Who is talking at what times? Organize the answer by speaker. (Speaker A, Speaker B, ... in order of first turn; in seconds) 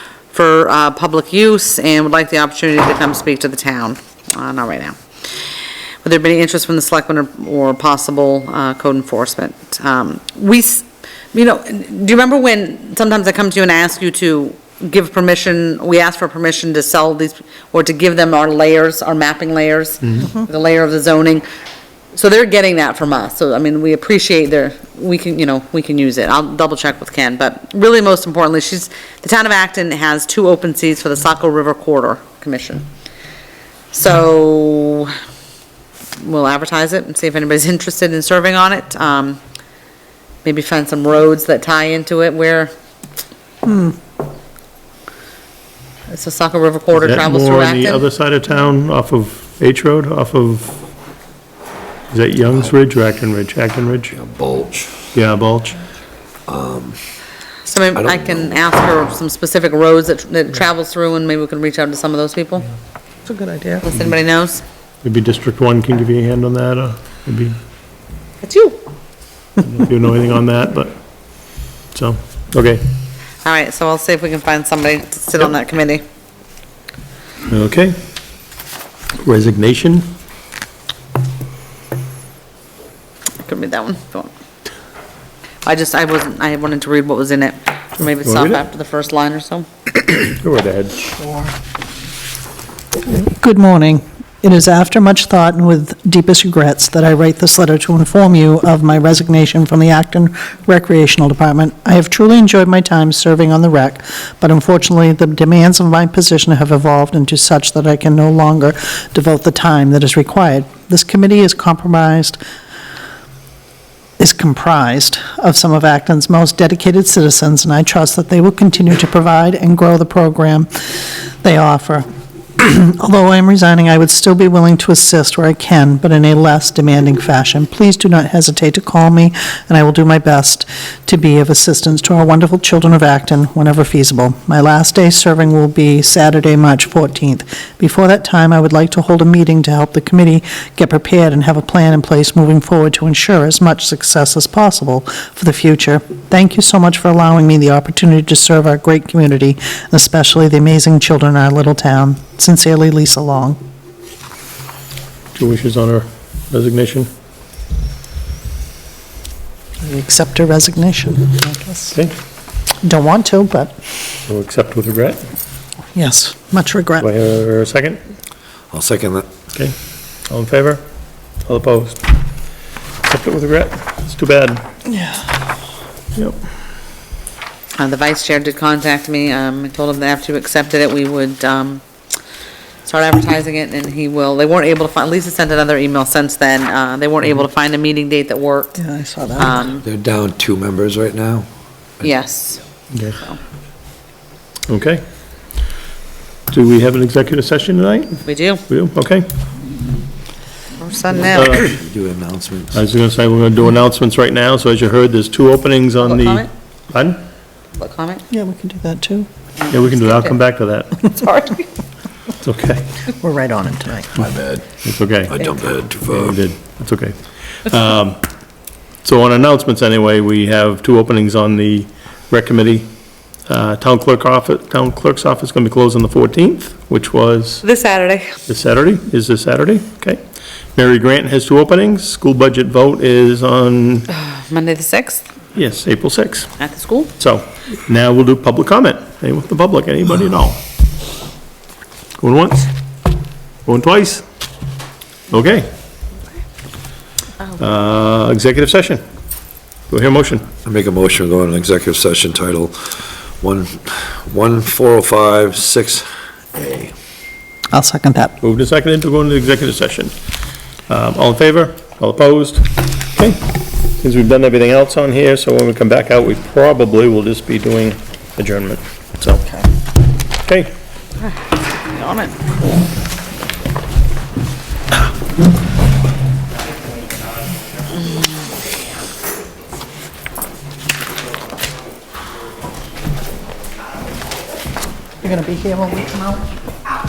Speaker A: 0.3-5.0, 6.0-21.4, 22.1-32.9, 33.9-35.1, 36.2-39.4, 40.4-42.7, 46.1-48.0, 57.6-62.7, 63.8-64.6, 68.4-68.8, 73.4-76.0, 83.4-84.3, 85.6-89.7, 177.8-181.8, 182.8-188.8, 189.4-189.8, 192.0-192.6, 198.2-198.6, 200.8-201.6, 206.0-206.5, 207.8-208.2, 209.6-210.3, 211.1-211.7, 227.6-228.3, 234.1-235.2, 236.6-237.1, 271.9-272.4
Speaker B: 43.7-43.9, 63.3-63.8, 91.2-91.5, 93.1-112.4, 114.2-122.0, 122.6-153.6, 159.8-161.9, 162.8-163.7, 165.9-167.1, 188.8-189.7, 208.3-209.3, 213.2-214.2, 257.7-258.4, 285.2-286.4
Speaker C: 46.9-50.8, 52.1-54.1, 55.1-55.8, 65.0-67.6, 69.6-71.0, 71.9-72.8, 77.5-78.0, 79.2-80.1, 88.2-88.6, 90.0-91.1, 155.3-157.1, 164.3-165.2, 167.0-168.0, 170.3-170.8, 171.4-172.1, 173.0-174.6, 192.9-193.2, 194.7-195.0, 196.5-199.2, 201.3-201.7, 202.7-207.2, 209.7-211.1, 212.4-212.9, 214.8-215.5, 216.0-218.2, 219.0-222.9, 223.5-227.6, 228.5-230.2, 230.8-234.1, 235.5-236.5, 237.2-240.6, 242.2-242.7, 243.7-244.2, 245.3-245.7, 247.6-249.0, 249.9-250.5, 258.4-260.1, 260.9-269.4, 270.4-270.7
Speaker D: 54.1-55.0, 56.5-57.0, 57.9-58.4, 168.7-169.2, 189.8-191.5, 201.6-202.8, 214.2-214.7, 215.3-216.4, 250.6-252.8, 253.4-256.9